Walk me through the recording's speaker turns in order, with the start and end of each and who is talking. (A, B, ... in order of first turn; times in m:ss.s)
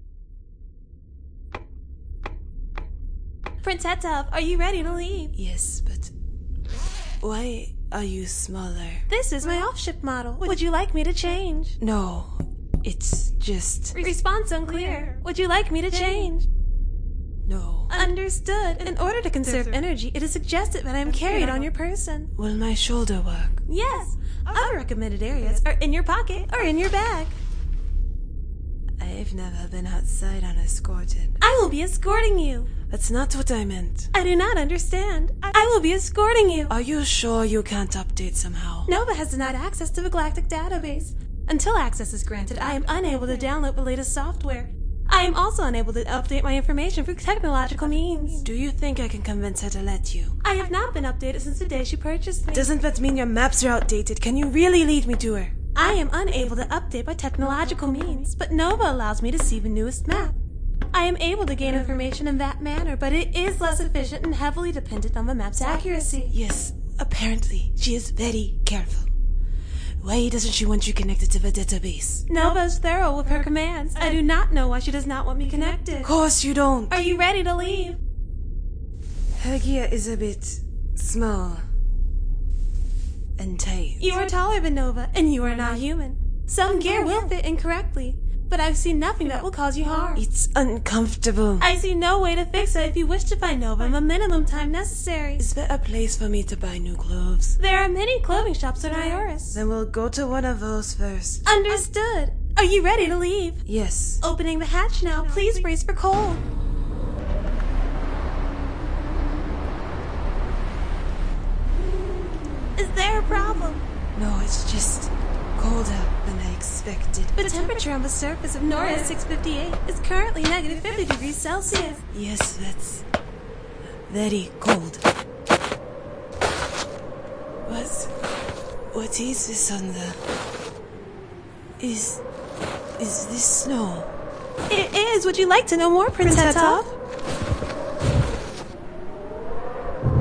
0:03.6-0:05.3 A
0:05.3-0:06.1 B
0:07.2-0:09.1 B
0:09.1-0:11.8 A
0:11.8-0:14.0 B
0:13.9-0:16.5 A
0:17.4-0:18.1 B
0:17.9-0:22.3 A
0:19.5-0:19.8 B
0:21.1-0:21.7 B
0:22.3-0:23.7 B
0:23.6-0:27.4 A
0:24.5-0:24.8 B
0:29.0-0:31.5 B
0:31.4-0:32.7 A
0:32.9-0:34.1 B
0:34.1-0:36.7 A
0:36.7-0:38.9 B
0:38.9-0:48.5 A
0:48.4-0:50.4 B
0:50.4-0:52.7 A
0:52.5-0:55.7 B
0:55.7-1:00.4 A
1:00.9-1:06.3 A
1:06.3-1:09.1 B
1:10.0-1:12.3 B
1:12.3-1:16.1 A
1:16.0-1:17.1 B
1:16.9-1:18.0 A
1:19.4-1:21.6 B
1:23.4-1:24.1 B
1:24.0-1:30.2 A
1:30.1-1:31.7 B
1:31.6-1:35.5 A
1:35.4-1:37.6 B
1:37.6-1:39.6 A
1:39.4-1:41.5 B
1:41.4-1:43.6 A
1:43.6-1:44.2 B
1:44.2-1:46.4 A
1:52.8-1:53.8 A
1:54.1-1:57.5 B
1:57.4-2:02.0 A
2:02.1-2:03.0 B
2:04.1-2:05.0 B
2:07.6-2:08.1 B
2:08.9-2:10.2 B
2:11.8-2:12.2 B
2:13.0-2:14.1 B
2:14.7-2:16.9 A
2:16.2-2:16.9 B